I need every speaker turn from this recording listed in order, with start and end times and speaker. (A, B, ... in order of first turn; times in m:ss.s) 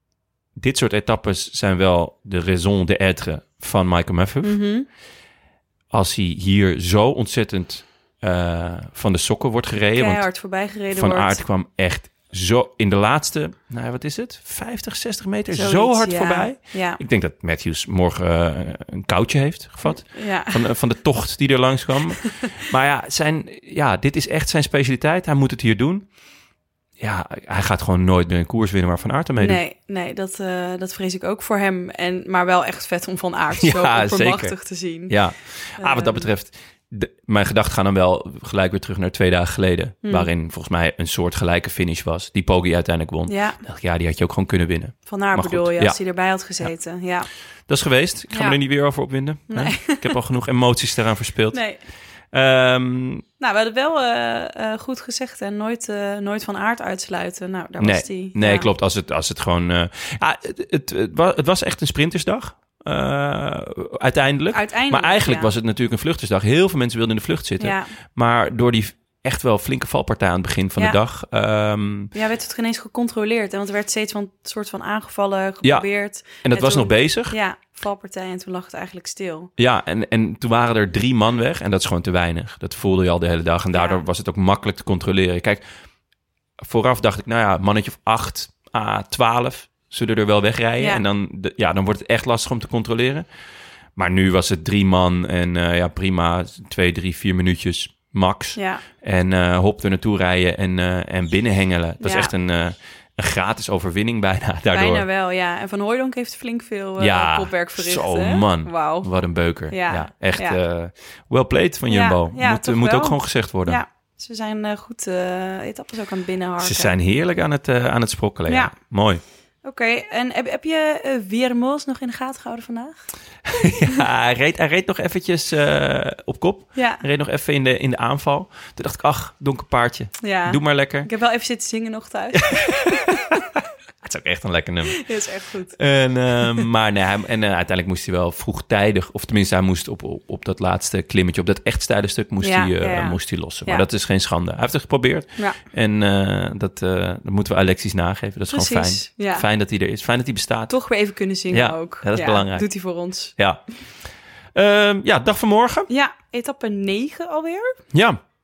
0:00.6-0:04.6 A
0:04.4-0:04.9 B
0:05.9-0:26.1 A
0:09.9-0:11.4 B
0:15.5-0:17.0 B
0:19.8-0:20.6 B
0:27.0-0:29.6 A
0:29.4-0:35.2 B
0:33.6-0:34.6 A
0:35.1-0:46.0 A
0:35.8-0:36.3 B
0:40.0-0:40.3 B
0:43.3-0:43.6 B
0:45.0-0:47.3 B
0:47.7-0:51.6 A
0:48.3-0:48.6 B
0:49.5-0:50.1 B
0:51.5-0:51.8 B
0:52.3-0:53.2 A
0:53.4-0:58.7 B
0:57.8-1:12.1 A
1:04.5-1:05.5 B
1:07.6-1:07.9 B
1:12.1-1:19.5 B
1:15.6-1:17.3 A
1:19.6-1:25.6 A
1:23.7-1:24.0 B
1:26.6-1:33.2 A
1:30.8-1:31.0 B
1:34.0-1:45.0 A
1:38.6-1:38.8 B
1:42.0-1:42.3 B
1:44.7-1:49.1 B
1:47.0-1:53.8 A
1:49.7-1:50.6 B
1:51.9-1:56.9 B
1:56.6-1:59.2 A
1:58.5-1:58.7 B
1:59.6-2:03.0 B
2:03.5-2:11.1 A
2:06.7-2:07.0 B
2:10.2-2:13.1 B
2:12.4-2:13.4 A
2:14.0-2:15.1 A
2:14.9-2:15.8 B
2:15.8-2:30.7 A
2:22.4-2:23.8 B
2:25.4-2:25.6 B
2:28.5-2:29.4 B
2:30.7-2:33.3 B
2:31.5-2:32.7 A
2:33.4-2:33.6 A
2:34.5-2:35.9 A
2:35.9-2:37.8 B
2:37.9-2:38.2 A